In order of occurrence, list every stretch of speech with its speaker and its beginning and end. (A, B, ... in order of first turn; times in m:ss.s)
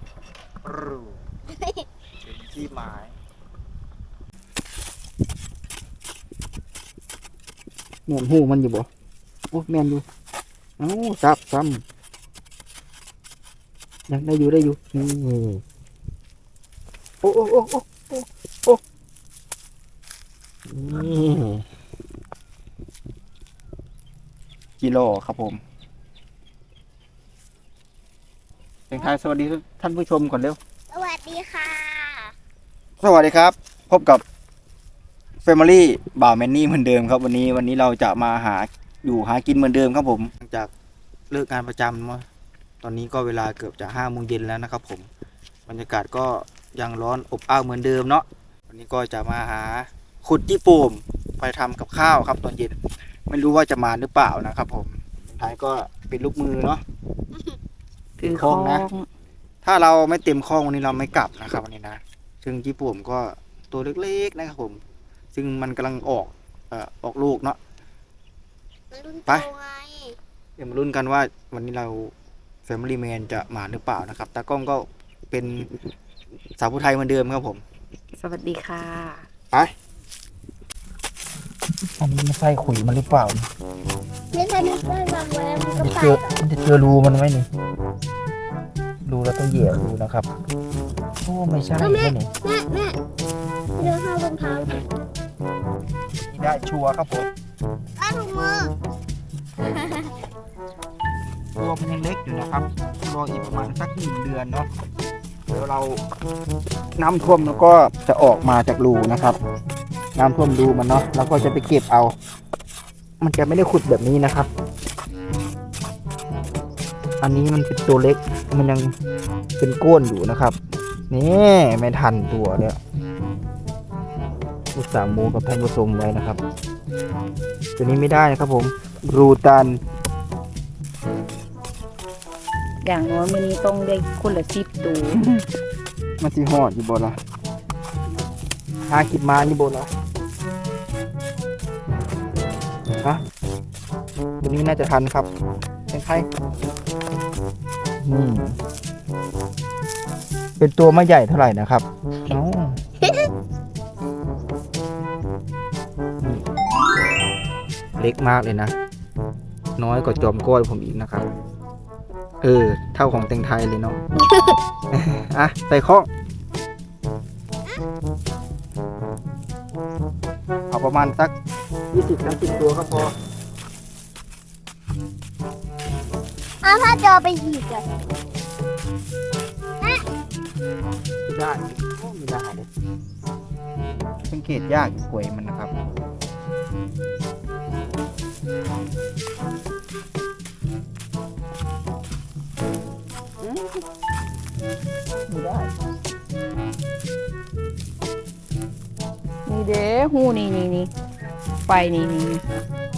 0:00.6-0:01.2 A
0:01.5-0:01.9 B
0:02.2-0:03.2 A
0:08.1-0:08.9 A
0:09.5-0:10.0 A
0:10.8-0:11.8 A
0:14.1-0:15.6 A
0:17.2-0:18.8 A
0:20.7-0:21.6 A
0:24.8-0:25.6 A
0:28.9-0:30.6 A
0:30.9-0:32.3 B
0:33.0-0:34.2 A
0:35.4-0:40.7 A
0:41.3-0:42.2 A
0:42.8-0:45.1 A
0:45.7-0:52.8 A
0:53.3-0:56.8 A
0:58.2-0:59.1 C
0:58.2-0:58.8 A
0:59.6-1:04.8 A
1:05.3-1:07.6 A
1:08.9-1:10.2 B
1:10.6-1:12.1 A
1:12.7-1:15.7 A
1:16.6-1:17.6 A
1:18.2-1:19.2 C
1:22.0-1:23.5 A
1:24.3-1:26.3 B
1:25.8-1:27.5 A
1:29.1-1:30.3 A
1:31.2-1:32.3 A
1:31.8-1:33.0 B
1:33.8-1:34.8 B
1:36.2-1:37.3 A
1:38.0-1:38.7 B
1:39.6-1:40.1 B
1:41.6-1:44.7 A
1:45.5-1:46.0 A
1:47.0-1:49.4 A
1:50.2-1:52.2 A
1:53.2-1:54.5 A
1:57.2-1:58.9 A
1:59.6-2:00.6 A
2:01.1-2:02.8 A
2:04.7-2:06.4 A
2:07.8-2:09.8 A
2:12.8-2:15.2 C
2:15.1-2:15.4 A
2:16.2-2:17.2 A
2:18.9-2:19.9 A
2:24.4-2:25.3 A
2:25.9-2:26.3 A
2:28.0-2:28.6 A
2:30.6-2:32.8 A
2:33.0-2:33.3 B
2:38.0-2:38.7 A
2:39.8-2:41.3 A
2:42.4-2:44.0 A
2:44.2-2:44.6 B
2:44.9-2:46.1 A
2:50.7-2:51.3 A
2:51.9-2:53.1 A
2:56.6-2:57.9 B
3:01.3-3:02.7 A
3:04.3-3:05.7 A
3:13.4-3:13.8 C
3:15.3-3:15.7 C
3:19.5-3:20.9 C
3:21.7-3:22.4 C